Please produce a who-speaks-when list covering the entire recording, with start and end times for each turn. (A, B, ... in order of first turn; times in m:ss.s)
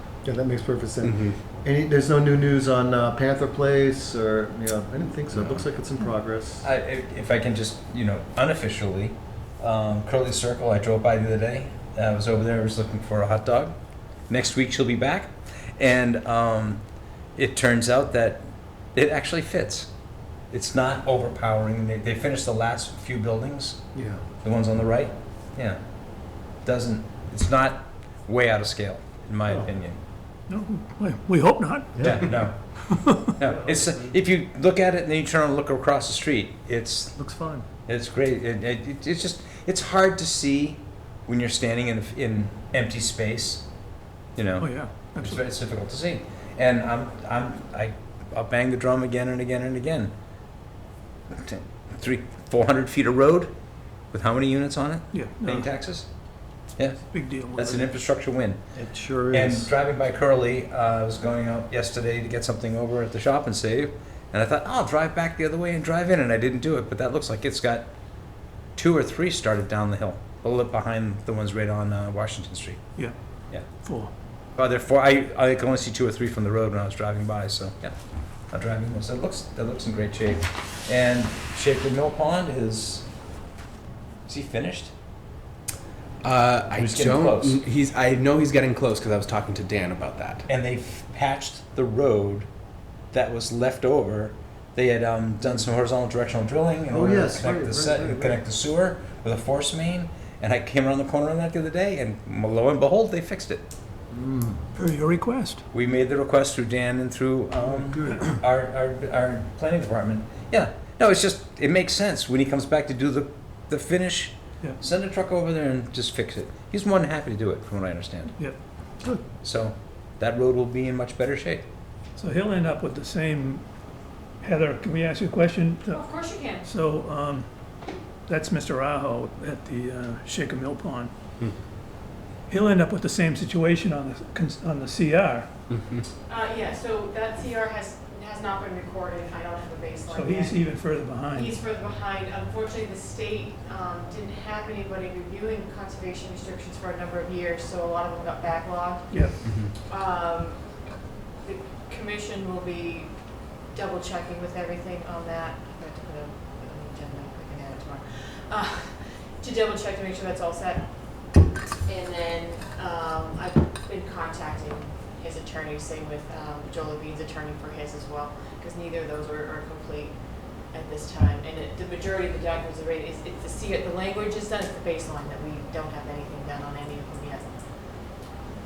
0:00.2-0:06.6 A
0:01.0-0:01.4 B
0:06.6-0:13.8 C
0:14.3-0:16.8 C
0:17.4-0:18.4 C
0:18.9-0:19.9 C
0:20.5-0:30.0 C
0:24.0-0:24.2 A
0:30.5-0:33.3 D
0:32.0-0:32.2 A
0:32.0-0:43.7 C
0:37.2-0:37.6 A
0:44.4-0:50.1 C
0:44.6-0:45.4 D
0:51.3-0:53.5 C
0:54.1-0:56.1 C
0:55.1-0:55.7 D
0:56.8-0:58.6 C
0:57.1-0:57.9 D
0:58.8-0:59.7 A
0:59.3-1:07.9 C
1:08.8-1:12.8 C
1:13.0-1:14.1 D
1:14.6-1:18.0 C
1:18.5-1:23.1 C
1:24.3-1:24.9 C
1:26.2-1:30.5 B
1:26.8-1:27.6 C
1:30.5-1:32.5 C
1:33.1-1:43.6 C
1:36.9-1:38.4 A
1:44.1-1:44.6 A
1:44.8-1:45.6 D
1:45.7-1:58.5 C
1:59.4-2:01.7 C
2:02.2-2:03.6 D
2:04.4-2:07.5 D
2:05.9-2:06.7 E
2:08.3-2:11.1 D
2:12.5-2:15.5 D
2:15.7-2:16.0 B
2:16.3-2:20.6 E
2:20.1-2:21.6 D
2:21.3-2:30.8 E
2:29.1-2:29.4 D
2:31.4-2:57.6 E